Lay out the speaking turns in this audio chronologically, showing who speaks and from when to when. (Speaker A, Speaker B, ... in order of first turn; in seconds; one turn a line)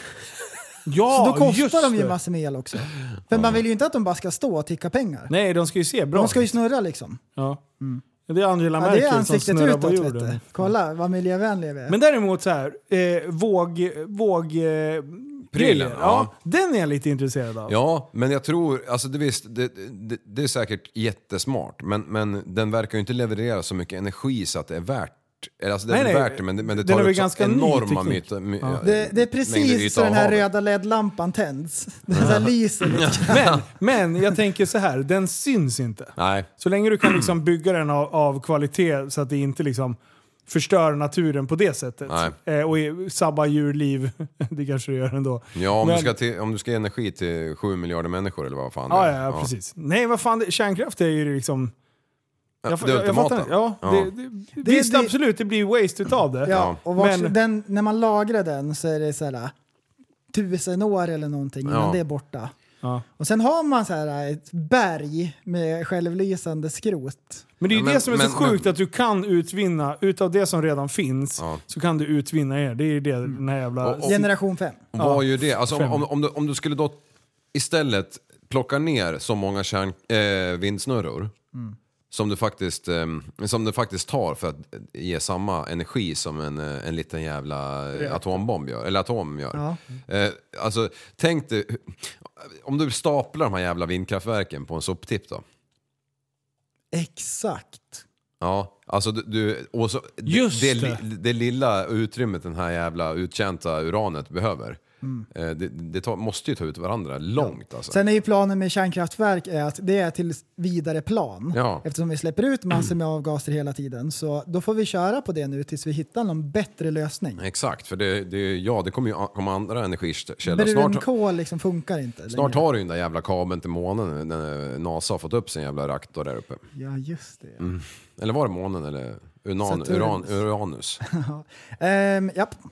Speaker A: 0.9-2.2
Speaker B: 1.1-5.3
Speaker C: 3.3-3.6
Speaker A: 5.3-6.5
Speaker B: 6.2-7.2
Speaker A: 7.4-7.6
Speaker A: 8.3-10.5
Speaker B: 8.8-12.0
Speaker A: 11.9-17.7
Speaker C: 15.5-16.3
Speaker C: 17.7-30.5
Speaker A: 25.9-28.8
Speaker B: 28.8-33.4
Speaker C: 32.1-33.6
Speaker A: 33.3-46.1
Speaker C: 36.2-36.5
Speaker C: 37.0-37.3
Speaker C: 42.1-42.3
Speaker C: 45.5-49.5
Speaker A: 48.9-51.7
Speaker C: 52.6-54.1
Speaker A: 52.7-57.3
Speaker B: 54.6-55.1
Speaker B: 56.5-59.5
Speaker C: 56.5-56.8
Speaker B: 60.3-62.5
Speaker C: 61.7-62.0
Speaker B: 63.2-67.5
Speaker A: 67.6-74.3
Speaker C: 67.7-68.8
Speaker C: 73.8-74.1
Speaker B: 74.0-74.8
Speaker C: 74.9-77.0
Speaker A: 75.0-76.0
Speaker C: 77.5-81.3
Speaker C: 82.1-95.4
Speaker B: 96.9-98.0
Speaker C: 98.4-104.8
Speaker A: 100.3-101.0
Speaker C: 105.3-108.0
Speaker B: 107.4-117.4
Speaker C: 111.5-111.8
Speaker C: 117.4-121.1
Speaker B: 120.5-122.6
Speaker C: 122.3-126.6
Speaker B: 126.7-127.7
Speaker C: 127.6-131.0
Speaker B: 129.7-130.4
Speaker B: 131.0-132.6